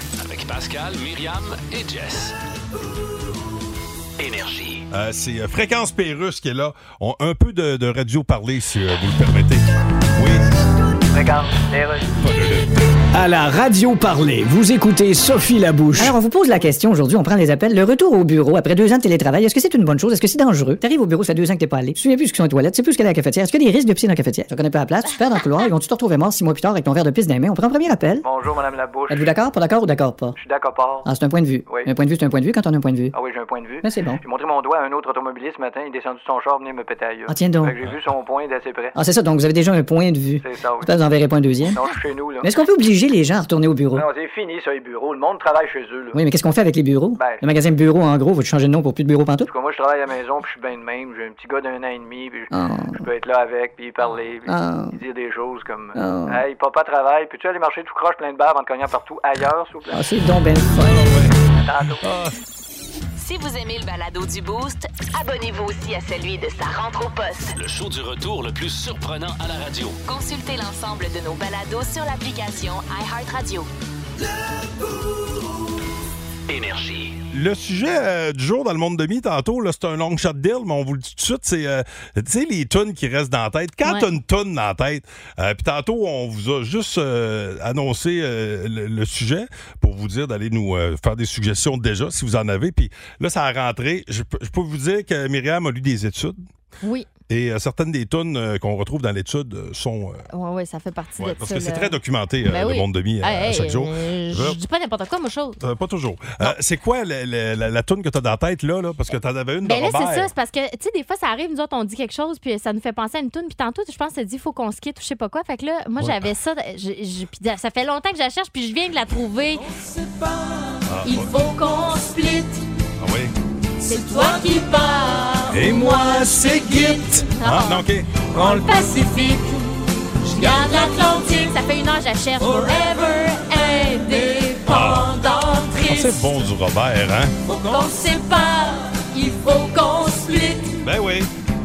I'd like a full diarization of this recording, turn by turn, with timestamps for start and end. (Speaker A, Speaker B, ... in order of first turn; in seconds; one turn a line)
Speaker A: 0.2-2.4
Speaker A: 4.2-4.9
Speaker B: 4.9-10.4
Speaker C: 11.1-12.1
Speaker B: 12.2-12.7
Speaker D: 13.1-16.2
Speaker E: 15.9-28.3
Speaker C: 28.2-29.3
Speaker E: 29.1-30.4
Speaker C: 30.4-31.1
Speaker E: 31.0-33.2
Speaker C: 33.1-39.0
Speaker E: 33.8-34.2
Speaker E: 37.3-37.8
Speaker E: 39.0-41.8
Speaker C: 40.4-40.9
Speaker C: 41.7-42.5
Speaker E: 42.4-44.1
Speaker C: 43.9-46.2
Speaker E: 46.1-49.5
Speaker C: 47.2-47.5
Speaker C: 49.5-60.0
Speaker E: 52.5-53.1
Speaker E: 54.5-55.0
Speaker E: 56.0-56.4
Speaker E: 59.9-61.3
Speaker B: 60.9-61.3
Speaker C: 61.6-62.1
Speaker B: 62.0-62.3
Speaker F: 63.2-67.5
Speaker A: 67.5-70.0
Speaker F: 70.1-73.7
Speaker A: 76.5-77.2
Speaker B: 77.3-96.4
Speaker G: 83.8-84.1
Speaker G: 96.8-97.1
Speaker B: 97.3-100.2
Speaker G: 100.3-105.6
Speaker B: 101.2-104.6
Speaker B: 105.6-110.3
Speaker G: 109.6-119.6
Speaker B: 116.0-116.3
Speaker B: 120.9-121.3
Speaker G: 121.0-122.6
Speaker B: 123.0-123.3
Speaker G: 123.8-129.6
Speaker B: 125.5-128.6
Speaker G: 130.3-136.3
Speaker B: 134.7-135.1
Speaker B: 135.9-137.4
Speaker G: 137.5-140.8
Speaker B: 140.8-141.3